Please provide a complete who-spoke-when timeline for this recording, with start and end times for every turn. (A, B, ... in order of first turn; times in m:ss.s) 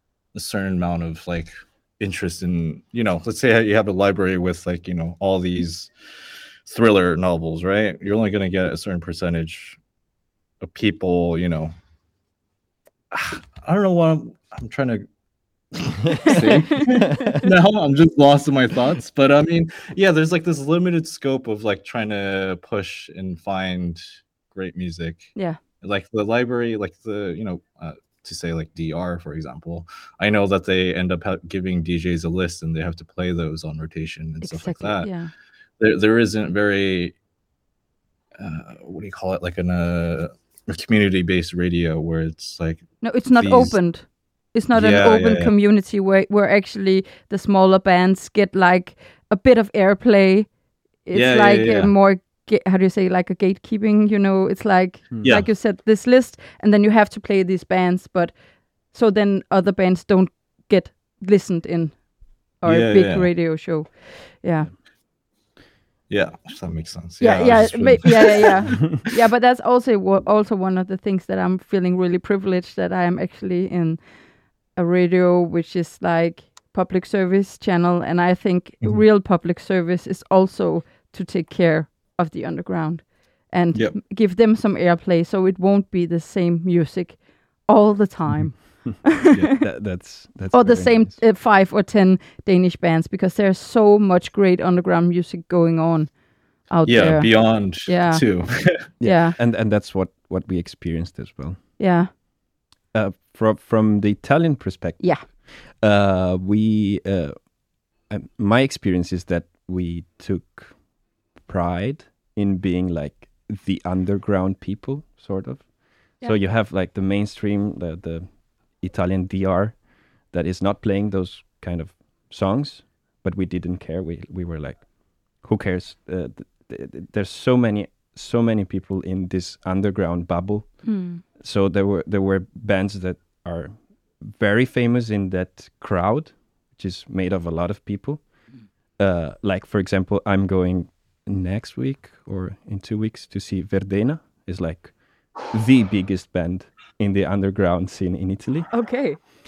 0:00.3-0:05.9 A
0:06.6-0:09.8 A
0:10.6-0:11.7 A
0:13.1-0:15.0 A
0:15.7-0:35.1 A
0:16.2-0:17.4 B
0:16.2-0:17.1 C
0:34.4-0:35.3 C
0:35.8-0:37.1 A
0:38.4-0:43.8 A
0:43.0-0:50.5 C
0:44.7-0:45.5 A
0:51.0-1:04.7 C
0:51.1-0:51.9 A
0:55.1-0:55.4 B
0:55.2-0:55.5 A
1:02.6-1:03.3 A
1:06.1-1:09.0 A
1:07.2-1:14.0 C
1:14.7-1:29.5 C
1:28.6-1:31.2 B
1:30.5-1:39.4 C
1:36.8-1:38.8 A
1:39.0-1:41.6 B
1:41.8-1:42.1 C
1:42.9-1:50.8 B
1:45.0-1:45.2 C
1:51.4-2:29.3 B
2:10.8-2:11.2 C
2:28.7-2:29.2 C